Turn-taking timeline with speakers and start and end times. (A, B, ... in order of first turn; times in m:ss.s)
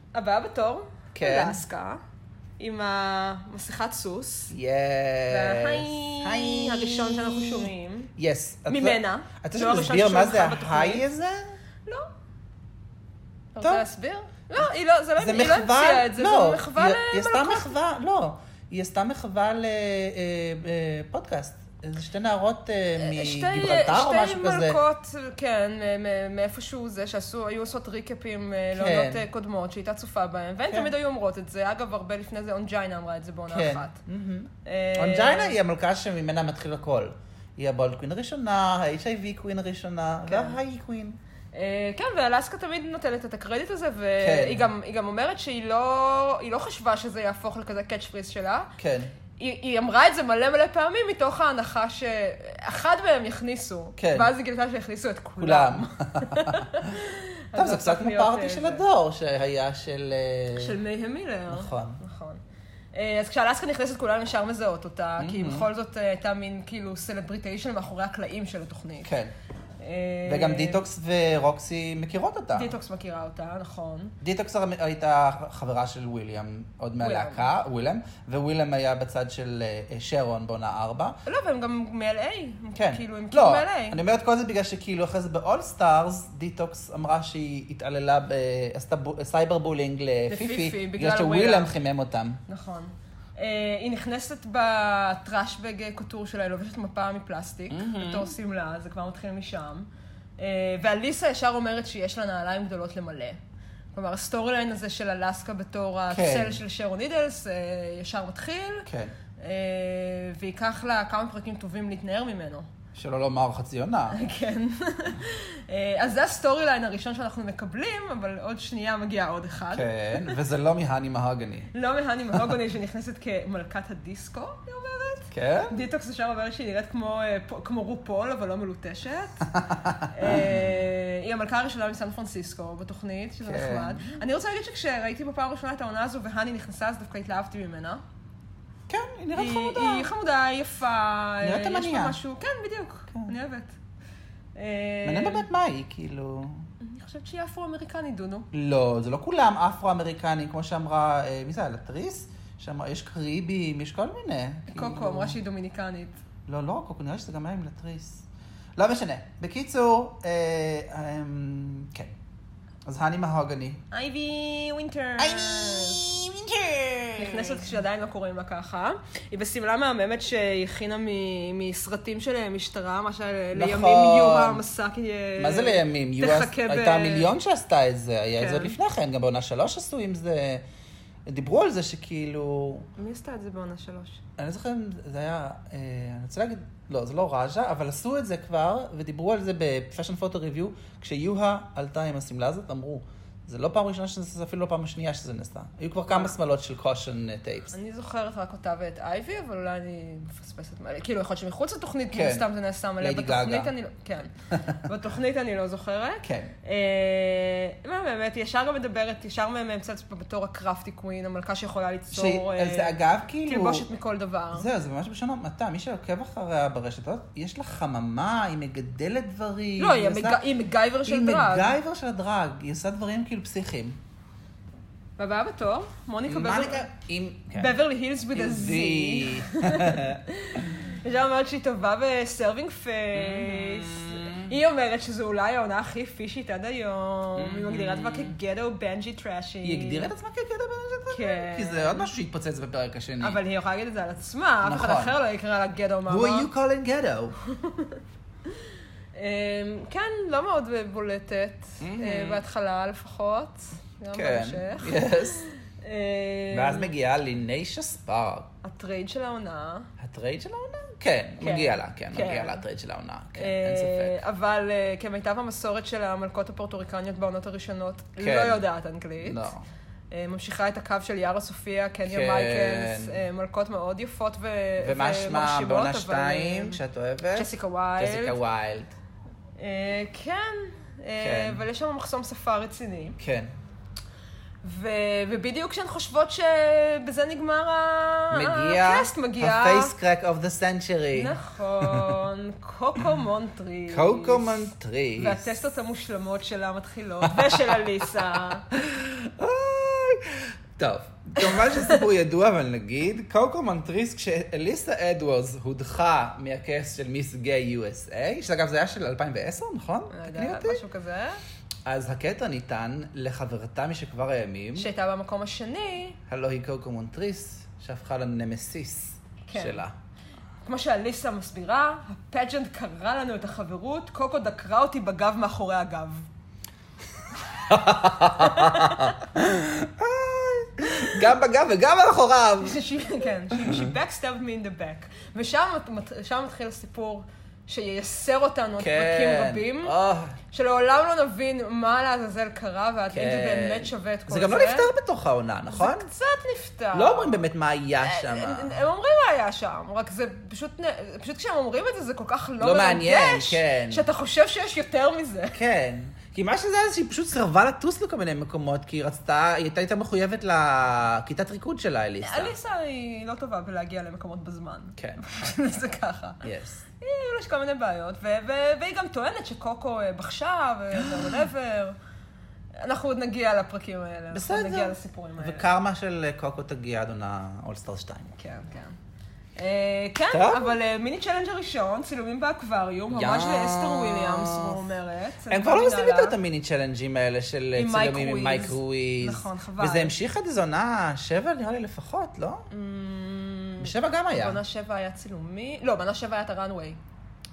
0:00.1-0:02.0 A
0:01.1-0:01.6 B
0:02.6-0:04.5 A
0:04.5-0:11.5 B
0:05.3-0:08.1 A
0:08.7-0:11.0 A
0:13.5-0:17.7 A
0:13.6-0:13.8 B
0:15.2-0:24.8 B
0:23.0-0:34.0 A
0:28.7-0:29.2 B
0:33.5-0:41.2 B
0:34.6-0:35.5 A
0:40.2-0:40.6 A
0:41.5-0:48.7 A
0:44.2-0:44.7 B
0:48.8-0:49.1 B
0:49.4-0:58.8 A
0:54.0-0:54.3 B
0:55.4-0:56.9 B
0:57.5-1:00.8 B
1:00.5-1:02.4 A
1:01.5-1:02.0 B
1:02.9-1:09.1 A
1:05.2-1:05.7 B
1:09.0-1:09.3 B
1:09.8-1:10.8 A
1:10.2-1:12.7 B
1:12.5-1:14.2 A
1:14.2-1:21.2 B
1:17.0-1:17.4 A
1:21.2-1:24.0 A
1:22.7-1:32.4 B
1:30.3-1:31.7 A
1:32.5-1:43.4 A
1:37.7-1:38.3 B
1:43.9-1:48.9 A
1:46.1-1:46.6 B
1:48.9-1:49.1 B
1:49.4-1:52.7 A
1:52.9-1:54.2 B
1:54.1-2:00.4 A
1:59.7-2:01.7 B
2:01.7-2:09.4 A
2:05.3-2:05.8 B
2:09.5-2:10.6 B
2:10.1-2:18.0 A
2:13.4-2:14.1 B
2:18.9-2:20.1 B
2:19.3-2:23.8 A
2:21.4-2:22.2 B
2:24.5-2:25.4 A
2:25.0-2:26.6 B
2:26.8-2:28.5 A
2:28.5-2:35.4 B
2:34.7-2:36.2 A
2:36.5-2:38.2 B
2:38.8-2:42.1 B
2:42.8-2:43.8 B
2:43.9-2:46.0 A
2:45.2-2:47.7 B
2:47.2-2:57.3 A
2:53.5-2:54.6 B
2:55.4-3:00.6 B
2:58.4-2:58.8 A
3:01.2-3:02.9 B
3:03.0-3:04.2 A
3:04.4-3:17.7 B
3:17.7-3:34.7 A
3:22.1-3:22.5 B
3:23.0-3:23.7 B
3:24.5-3:24.8 B
3:26.2-3:26.5 B
3:32.1-3:33.9 B
3:34.5-3:40.4 B
3:39.8-3:41.7 A
3:41.0-3:44.0 B
3:45.2-3:46.8 A
3:46.2-3:47.8 B
3:47.6-4:00.1 A
3:48.3-3:50.6 B
3:53.1-3:54.5 B
3:57.4-3:58.3 B
3:59.6-4:03.4 B
4:01.1-4:02.1 A
4:03.2-4:06.5 A
4:04.6-4:05.2 B
4:06.1-4:07.4 B
4:07.5-4:08.0 A
4:09.1-4:16.9 A
4:11.8-4:12.4 B
4:14.1-4:15.4 B
4:16.5-4:18.5 B
4:18.6-4:19.9 A
4:20.0-4:24.2 B
4:21.4-4:22.6 A
4:23.4-4:29.5 A
4:28.2-4:28.6 B
4:29.2-4:29.6 B
4:30.1-4:36.8 A
4:32.0-4:33.2 B
4:34.8-4:39.0 B
4:37.3-4:38.4 A
4:39.6-4:43.2 A
4:41.2-4:41.6 B
4:43.2-4:43.5 B
4:44.6-4:49.9 A
4:48.3-4:52.2 B
4:51.1-4:58.6 A
4:53.9-4:55.5 B
4:57.2-4:57.8 B
4:58.7-5:10.8 B
5:01.4-5:02.0 A
5:10.1-5:11.4 A
5:11.8-5:14.9 B
5:14.8-5:16.2 A
5:16.3-5:19.9 B
5:19.5-5:19.8 A
5:20.6-5:26.3 A
5:27.6-5:32.8 B
5:28.4-5:29.1 A
5:32.6-5:39.9 A
5:33.5-5:33.9 B
5:38.8-5:40.4 B
5:40.5-5:44.9 A
5:43.1-5:46.1 B
5:45.7-5:47.4 A
5:46.9-5:48.8 B
5:48.0-5:55.6 A
5:52.6-5:54.0 B
5:55.5-6:02.5 B
6:02.2-6:06.4 A
6:05.0-6:05.2 B
6:06.4-6:06.8 B
6:07.0-6:12.0 A
6:10.9-6:11.3 B
6:12.8-6:15.6 A
6:14.3-6:18.3 B
6:18.4-6:19.0 A
6:19.6-6:26.4 A
6:20.3-6:20.8 B
6:23.1-6:24.8 B
6:25.5-6:32.6 B
6:27.7-6:30.1 A
6:32.7-6:37.0 A
6:33.8-6:34.6 B